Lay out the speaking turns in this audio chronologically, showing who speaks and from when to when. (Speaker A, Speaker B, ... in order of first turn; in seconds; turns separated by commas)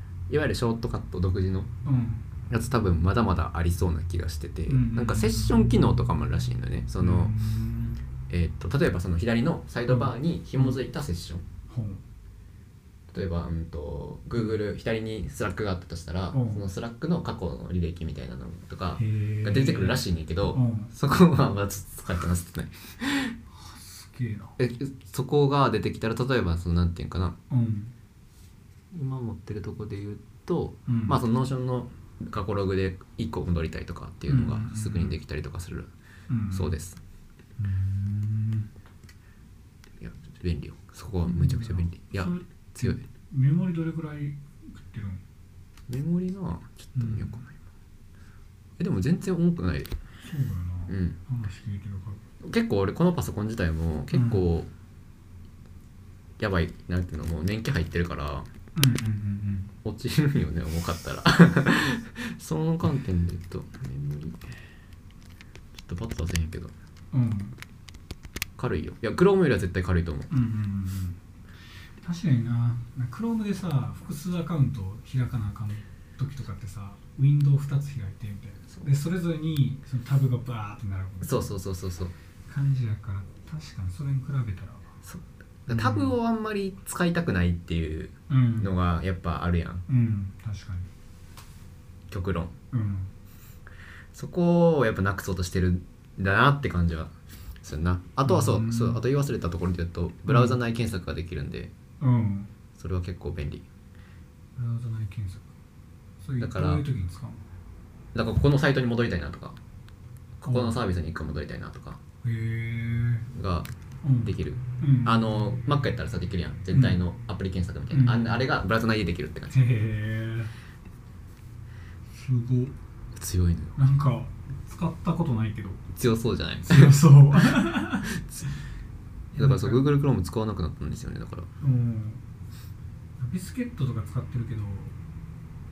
Speaker A: 0.3-1.7, Speaker B: 1.8-2.2, Speaker A: 2.5-7.3, Speaker B: 4.7-6.0, Speaker B: 7.0-8.0, Speaker A: 8.3-11.4, Speaker B: 9.9-10.8, Speaker B: 11.7-12.0, Speaker A: 13.1-23.3, Speaker B: 16.3-16.6, Speaker B: 19.0-20.9, Speaker B: 23.5-24.6, Speaker A: 24.6-27.4, Speaker B: 27.5-27.9, Speaker A: 28.9-35.9, Speaker B: 30.9-31.2, Speaker B: 34.3-35.1, Speaker B: 36.3-36.7, Speaker A: 36.5-37.0, Speaker B: 37.6-38.7, Speaker A: 40.0-43.0, Speaker B: 41.2-45.2, Speaker A: 45.9-47.5, Speaker B: 46.9-47.4, Speaker A: 48.8-49.9, Speaker B: 50.2-52.2, Speaker A: 50.9-51.2, Speaker A: 52.4-54.7, Speaker B: 54.1-54.5, Speaker A: 56.4-58.5, Speaker B: 58.7-59.7, Speaker A: 59.8-64.6, Speaker A: 65.7-66.7, Speaker B: 67.1-67.6, Speaker A: 68.6-70.3, Speaker B: 70.3-71.2, Speaker B: 72.0-81.5, Speaker A: 81.2-82.1, Speaker B: 82.5-84.9, Speaker A: 85.0-89.8, Speaker B: 85.7-86.2, Speaker B: 88.3-88.7, Speaker B: 89.9-90.9, Speaker A: 92.1-92.5, Speaker B: 92.7-93.1, Speaker A: 94.1-101.7, Speaker B: 98.2-99.0, Speaker B: 100.3-100.6, Speaker B: 102.0-102.5, Speaker A: 102.8-103.7, Speaker B: 104.5-105.5, Speaker B: 106.2-107.4, Speaker A: 106.4-106.8, Speaker A: 108.1-109.6, Speaker A: 110.4-112.0, Speaker B: 110.5-110.8, Speaker B: 112.2-113.3, Speaker A: 113.3-113.7, Speaker B: 114.0-115.2, Speaker A: 114.2-119.6, Speaker B: 116.7-117.0, Speaker B: 117.9-118.4, Speaker B: 119.5-120.5, Speaker B: 122.1-122.7, Speaker A: 123.2-123.8, Speaker B: 123.8-125.8, Speaker A: 125.9-128.4, Speaker B: 126.6-128.1, Speaker A: 129.3-131.5, Speaker B: 129.4-129.8, Speaker B: 131.6-132.2, Speaker B: 133.2-134.9